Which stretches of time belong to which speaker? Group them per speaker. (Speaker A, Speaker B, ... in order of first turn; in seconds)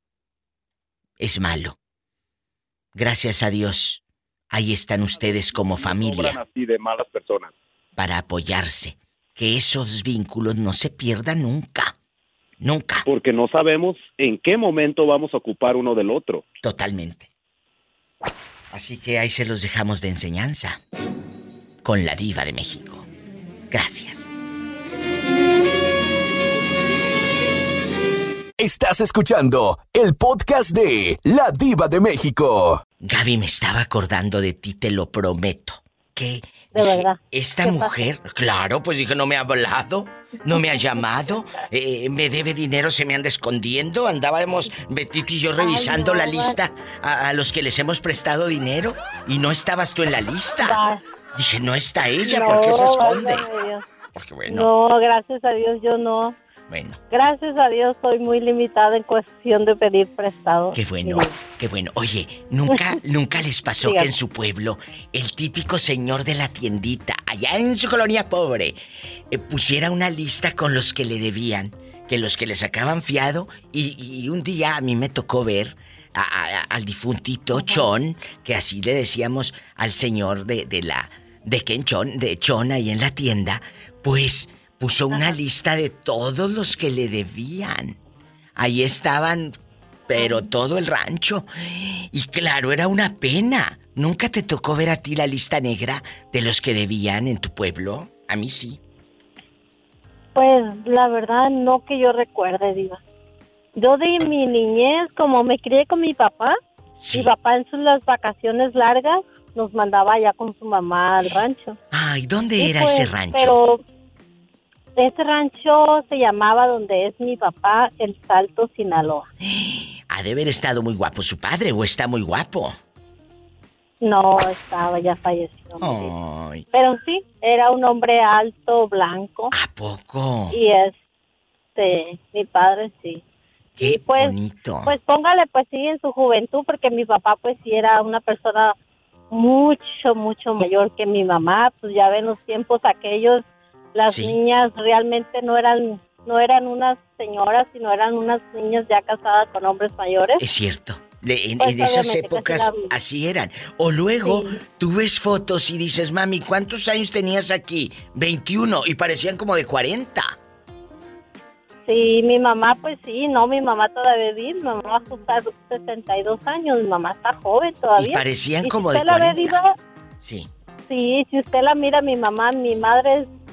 Speaker A: 1.2-1.8, 2.9-6.4, 8.0-11.9, 12.6-13.1, 16.6-17.3, 18.7-20.8, 21.8-23.1, 23.7-24.3, 33.0-50.8, 51.3-53.4, 54.1-54.7, 56.7-57.0, 60.7-68.8, 69.3-88.0, 88.6-89.5, 90.1-98.8, 107.0-107.3, 111.9-113.6, 119.4-122.7, 125.8-126.6, 129.5-130.6, 133.8-134.9, 144.1-144.4, 150.4-160.3, 168.0-169.6, 170.2-170.5
Speaker B: 5.1-7.5, 13.1-16.4
Speaker C: 28.6-32.8
Speaker D: 36.7-38.0, 45.6-46.6, 50.6-51.0, 52.2-53.8, 54.5-56.4, 57.1-61.3, 63.8-64.1, 100.3-103.0, 103.8-106.5, 107.1-111.8, 112.6-113.8, 115.0-119.3, 124.0-126.1, 126.7-129.5, 130.5-130.9, 131.8-133.2, 133.8-138.7, 139.3-143.4, 143.9-150.4, 151.6-152.9, 161.9-169.7, 170.9-173.3